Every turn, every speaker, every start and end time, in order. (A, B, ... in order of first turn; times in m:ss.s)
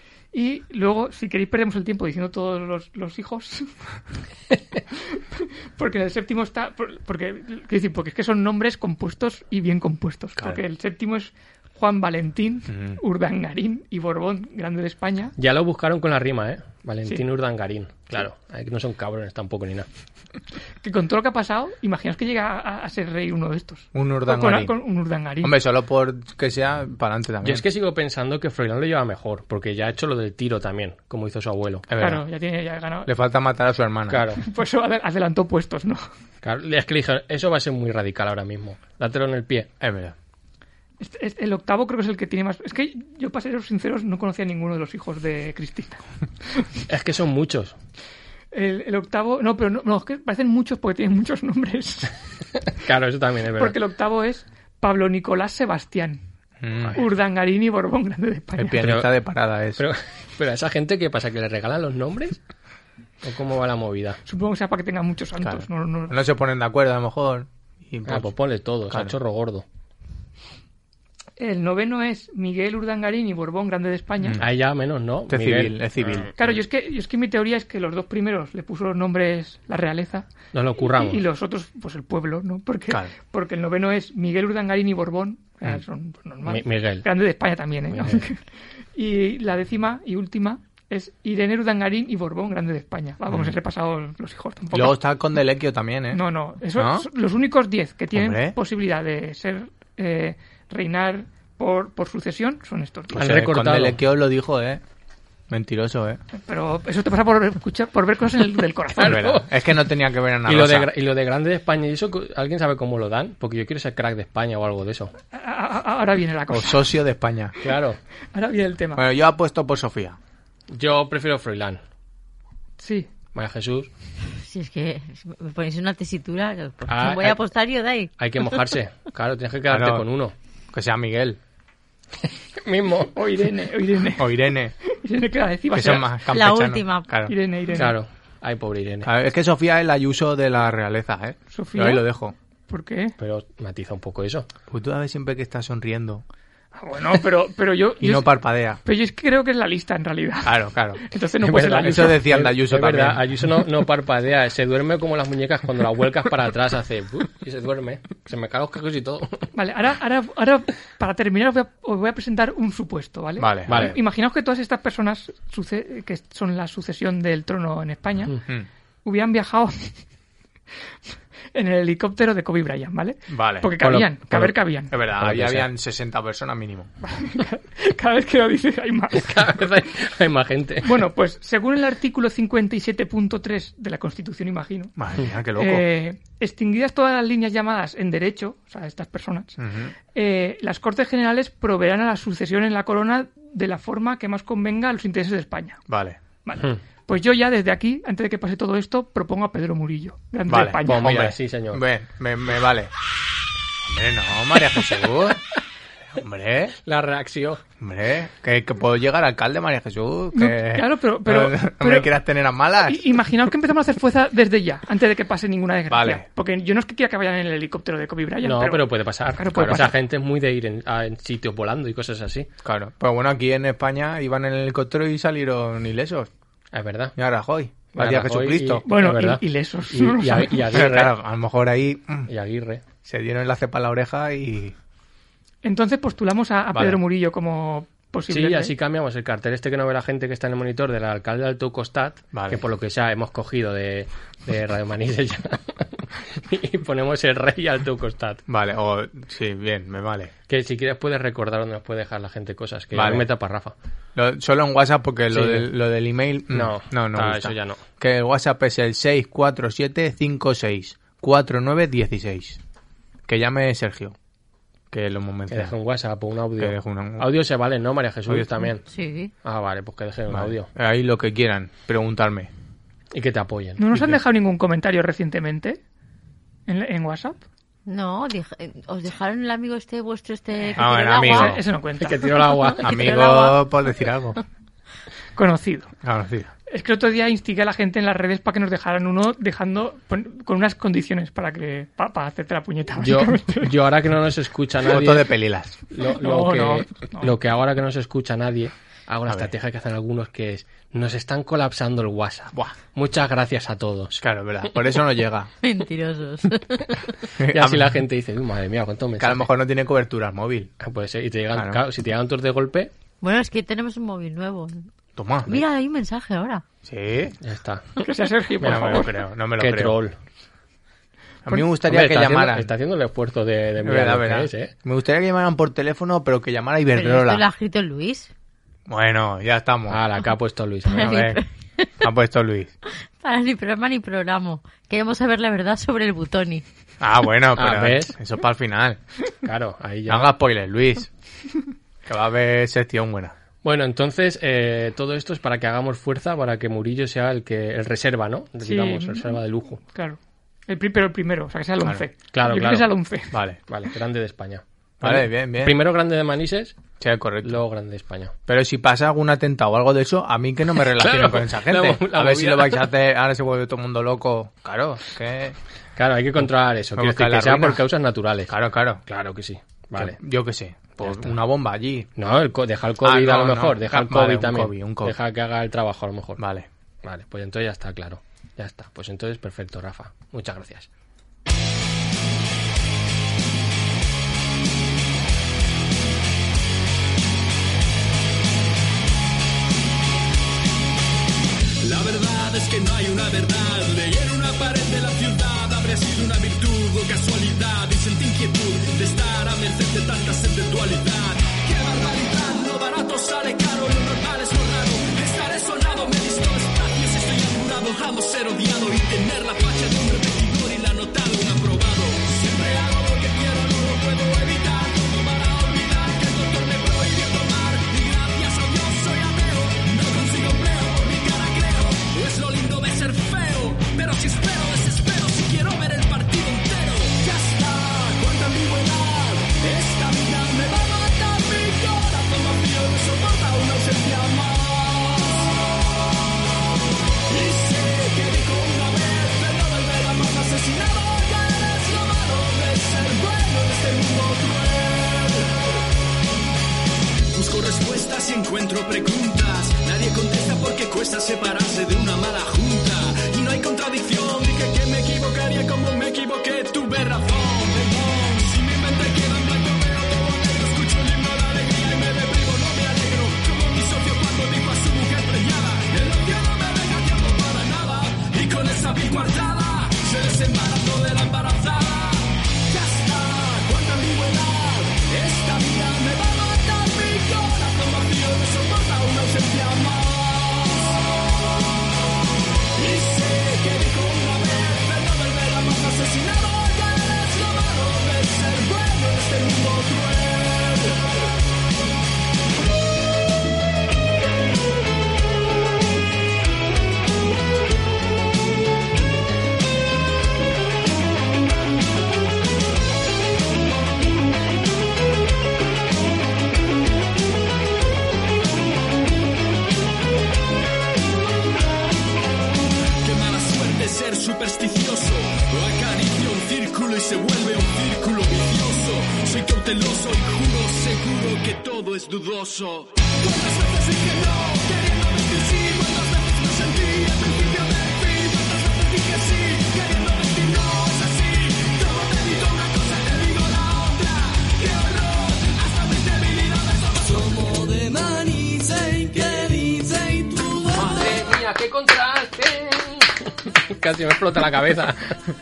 0:00.3-0:03.7 A
0:04.9-0:15.3 A
0:12.7-0:13.0 B
0:15.4-0:19.9 C
0:20.8-0:25.5 A
0:23.9-0:24.7 B
0:25.4-0:27.6 B
0:27.4-0:31.9 C
0:31.9-0:32.2 B
0:32.0-0:33.1 A
0:33.0-0:34.2 B
0:34.1-0:34.4 C
0:34.4-0:36.0 A
0:36.4-0:39.7 C
0:39.8-0:40.2 B
0:41.0-0:46.0 A
0:46.9-0:47.8 C
0:48.5-0:52.1 A
0:52.7-0:53.8 C
0:53.6-0:56.2 A
0:56.6-0:57.0 B
0:56.9-0:58.8 A
0:58.6-0:59.8 B
0:58.8-0:59.1 C
0:59.8-1:02.4 C
1:03.2-1:04.2 C
1:04.2-1:06.2 A
1:05.4-1:08.3 B
1:08.0-1:09.6 C
1:08.9-1:09.1 B
1:11.4-1:14.4 A
1:14.2-1:14.5 B
1:14.4-1:16.3 C
1:15.3-1:16.5 B
1:16.4-1:20.3 A
1:20.5-1:21.2 C
1:20.8-1:28.4 A
1:26.4-1:27.0 C
1:27.9-1:28.2 C
1:28.9-1:35.0 A
1:33.3-1:33.5 B
1:34.7-1:36.2 B
1:36.1-1:43.2 A
1:36.7-1:37.1 B
1:38.1-1:38.6 B
1:43.1-1:44.8 B
1:43.2-1:44.0 C
1:45.5-1:46.2 B
1:46.4-1:49.4 A
1:49.0-1:49.5 C
1:49.0-1:50.9 B
1:50.4-1:55.1 C
1:55.3-1:56.9 A
1:56.5-1:57.5 B
1:57.6-1:58.0 C
1:58.3-1:59.0 A
1:59.0-2:00.2 B
2:00.7-2:01.8 C
2:02.8-2:03.1 A
2:03.3-2:03.9 C
2:04.3-2:08.6 D
2:06.9-2:07.4 C
2:08.2-2:10.3 C
2:09.7-2:10.0 B
2:10.7-2:11.4 B
2:12.5-2:13.1 C
2:13.1-2:16.1 A
2:14.2-2:14.7 B
2:15.7-2:17.3 B
2:16.3-2:17.1 D
2:17.2-2:18.0 A
2:17.7-2:19.1 C
2:19.0-2:22.3 B
2:21.5-2:22.0 A
2:22.7-2:23.1 A
2:23.2-2:24.5 C
2:24.7-2:26.2 B
2:26.8-2:32.2 A
2:28.0-2:28.8 B
2:30.4-2:31.0 B
2:31.4-2:39.5 C
2:31.7-2:33.2 B
2:39.5-2:48.4 A
2:43.4-2:43.9 B
2:43.7-2:44.0 C
2:49.0-2:50.0 A
2:51.5-2:54.9 A
2:53.3-2:53.8 B
2:53.8-2:54.5 C
2:54.9-2:56.9 B
2:55.1-2:55.7 C
2:57.0-2:59.5 A
2:59.1-3:00.9 C
3:00.8-3:04.9 A
3:05.0-3:05.8 B
3:05.6-3:09.6 A
3:09.6-3:09.9 B
3:10.1-3:15.8 A
3:15.9-3:16.2 B
3:16.4-3:21.2 A
3:20.5-3:22.9 B
3:20.8-3:21.8 C
3:23.8-3:25.4 B
3:26.2-3:26.8 B
3:26.8-3:27.6 C
3:27.8-3:33.1 B
3:30.3-3:32.1 A
3:32.8-3:40.0 A
3:35.9-3:36.2 B
3:38.4-3:42.5 C
3:42.6-3:46.3 B
3:46.7-3:47.1 C
3:47.2-3:48.8 B
3:47.9-3:51.1 C
3:48.8-3:50.6 A
3:50.7-3:52.3 B
3:52.3-3:52.8 C
3:53.0-3:54.8 B
3:55.6-3:58.7 A
3:56.7-3:57.0 B
3:58.3-4:08.4 C
4:02.3-4:02.6 B
4:08.5-4:10.3 B
4:10.5-4:13.7 C
4:12.9-4:13.3 B
4:14.1-4:22.6 B
4:15.3-4:15.7 C
4:16.5-4:17.8 C
4:23.3-4:24.1 B
4:24.9-4:25.8 B
4:25.5-4:28.8 C
4:26.6-4:27.3 B
4:28.3-4:28.6 B
4:28.9-4:29.3 D
4:29.4-4:30.7 C
4:30.3-4:32.5 B
4:33.1-4:34.2 C
4:33.8-4:35.8 A
4:36.7-4:37.4 A
4:37.8-4:41.6 D
4:40.8-4:41.6 B
4:40.8-4:43.5 A
4:42.0-4:43.0 C
4:42.8-4:44.4 B
4:45.4-4:45.9 A
4:46.0-4:46.5 B
4:46.7-4:53.7 A
4:53.0-4:55.3 C
4:54.8-4:55.8 B
4:55.9-5:04.2 C
4:56.0-4:57.4 A
5:04.2-5:05.5 B
5:05.6-5:07.1 D
5:07.4-5:08.0 B
5:07.4-5:09.5 C
5:09.2-5:10.7 B
5:10.8-5:12.9 C
5:11.5-5:11.8 B
5:13.2-5:14.9 D
5:15.2-5:15.6 B
5:15.4-5:16.6 D
5:16.8-5:17.4 B
5:17.4-5:17.9 C
5:18.0-5:19.1 A
5:18.6-5:20.2 C
5:18.6-5:20.0 B
5:21.4-5:22.7 B
5:21.5-5:24.7 C
5:23.8-5:27.4 B
5:26.9-5:28.3 D
5:28.9-5:30.0 B
5:29.9-5:31.1 C
5:30.8-5:31.9 D
5:31.0-5:31.4 B
5:32.0-5:32.7 B
5:33.2-5:36.6 D
5:37.0-5:39.0 B
5:37.6-5:38.1 C
5:39.4-5:40.3 C
5:40.1-5:41.1 B
5:42.0-5:43.3 B
5:43.6-5:49.8 C
5:48.6-5:53.4 A
5:52.3-5:52.9 C
5:53.3-5:53.6 B
5:53.7-5:56.8 C
5:55.0-5:55.8 B
5:57.0-5:57.6 B
5:57.4-5:58.3 C
5:58.5-6:05.6 B
6:00.8-6:02.9 C
6:06.0-6:08.5 C
6:07.0-6:07.8 B
6:08.5-6:09.0 B
6:09.0-6:10.2 C
6:10.0-6:12.1 B
6:11.0-6:11.4 C
6:12.2-6:16.4 C
6:13.0-6:15.2 B
6:16.4-6:16.7 B
6:17.0-6:20.9 C
6:31.8-7:15.7 E
7:17.3-7:25.8 E
7:27.3-8:01.6 E
8:02.7-8:11.3 E
8:33.0-9:00.6 E
9:00.6-9:05.2 C